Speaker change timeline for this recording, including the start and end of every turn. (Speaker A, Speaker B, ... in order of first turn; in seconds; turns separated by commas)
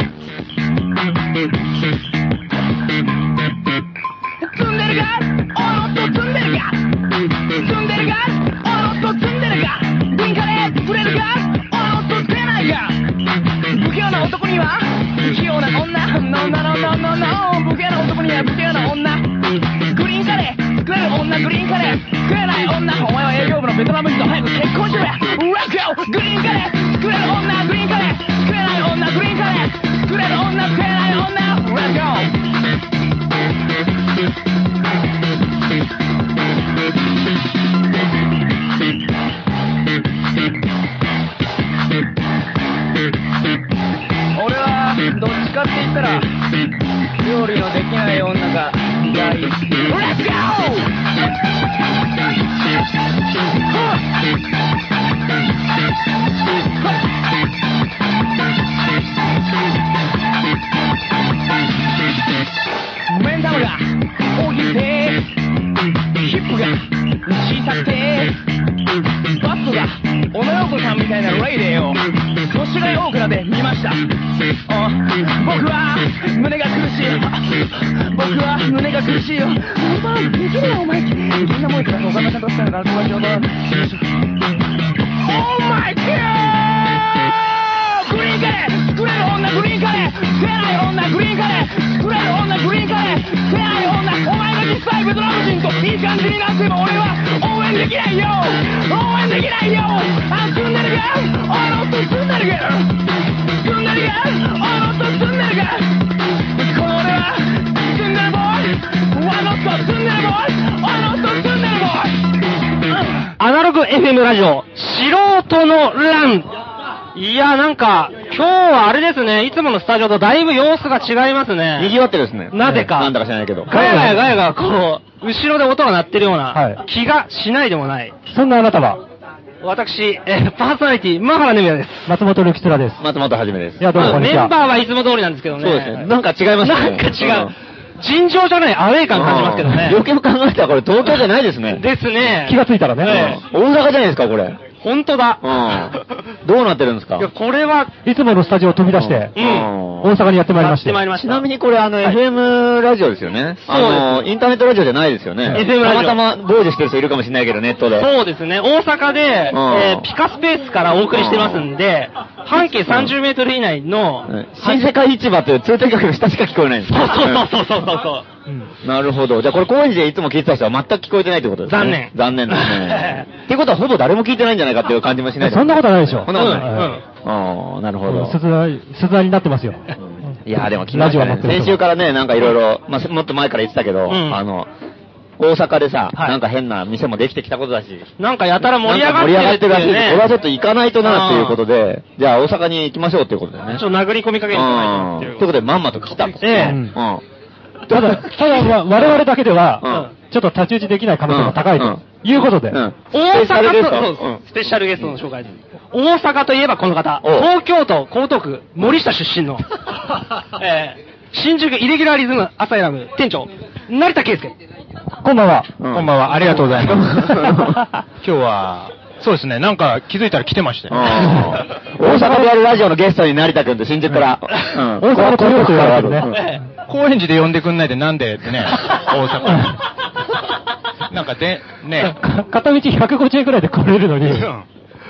Speaker A: 4.4-13.0, Speaker A: 13.7-32.3, Speaker A: 44.3-46.3, Speaker A: 47.2-50.9, Speaker A: 53.7-54.0, Speaker A: 63.1-65.3, Speaker A: 66.2-68.4, Speaker A: 69.3-74.1, Speaker A: 74.7-84.2, Speaker A: 85.1-112.3, Speaker B: 113.4-116.5, Speaker B: 117.1-121.9, Speaker C: 121.8-123.7, Speaker B: 122.5-123.1, Speaker D: 122.6-122.9, Speaker B: 123.7-128.1, Speaker D: 123.7-124.2, Speaker D: 126.5-126.8, Speaker D: 128.3-129.0, Speaker B: 129.6-132.1, Speaker D: 132.1-133.0, Speaker C: 133.0-134.3, Speaker D: 133.8-134.5, Speaker B: 133.9-136.1, Speaker C: 135.6-137.5, Speaker B: 136.6-140.0, Speaker C: 139.1-141.8, Speaker B: 141.8-143.4, Speaker D: 142.4-143.3, Speaker C: 143.0-144.6, Speaker B: 144.8-145.5, Speaker C: 145.4-147.3, Speaker B: 147.2-147.9, Speaker D: 148.0-149.3, Speaker C: 148.9-150.2, Speaker B: 149.3-149.7, Speaker D: 150.0-151.0, Speaker B: 150.5-151.5, Speaker C: 151.1-158.1, Speaker B: 153.7-154.3, Speaker B: 155.5-156.2, Speaker B: 157.9-164.9, Speaker C: 159.5-160.1, Speaker C: 161.1-161.7, Speaker C: 162.6-163.1, Speaker C: 164.3-167.5, Speaker B: 166.9-168.7, Speaker C: 168.8-178.3, Speaker B: 171.7-173.2, Speaker D: 175.4-176.9, Speaker B: 176.3-177.0, Speaker D: 178.0-179.8, Speaker C: 180.0-184.7, Speaker D: 180.9-181.8, Speaker B: 184.1-184.4, Speaker C: 185.4-188.1, Speaker B: 188.2-190.3, Speaker C: 188.7-193.8, Speaker B: 191.0-191.6, Speaker B: 193.7-195.5, Speaker C: 194.5-197.2, Speaker B: 196.4-196.8, Speaker D: 196.5-196.9, Speaker C: 197.9-199.2, Speaker D: 197.9-202.8, Speaker C: 199.8-200.1, Speaker C: 201.3-205.2, Speaker B: 203.1-209.7, Speaker C: 207.2-207.5, Speaker B: 210.5-214.5, Speaker D: 215.2-215.7, Speaker C: 215.8-218.0, Speaker E: 215.9-217.6, Speaker E: 218.2-221.7, Speaker C: 220.9-226.4, Speaker D: 224.9-226.3, Speaker B: 226.3-226.6, Speaker E: 226.9-229.8, Speaker E: 231.1-232.2, Speaker D: 232.0-234.5, Speaker E: 234.2-234.7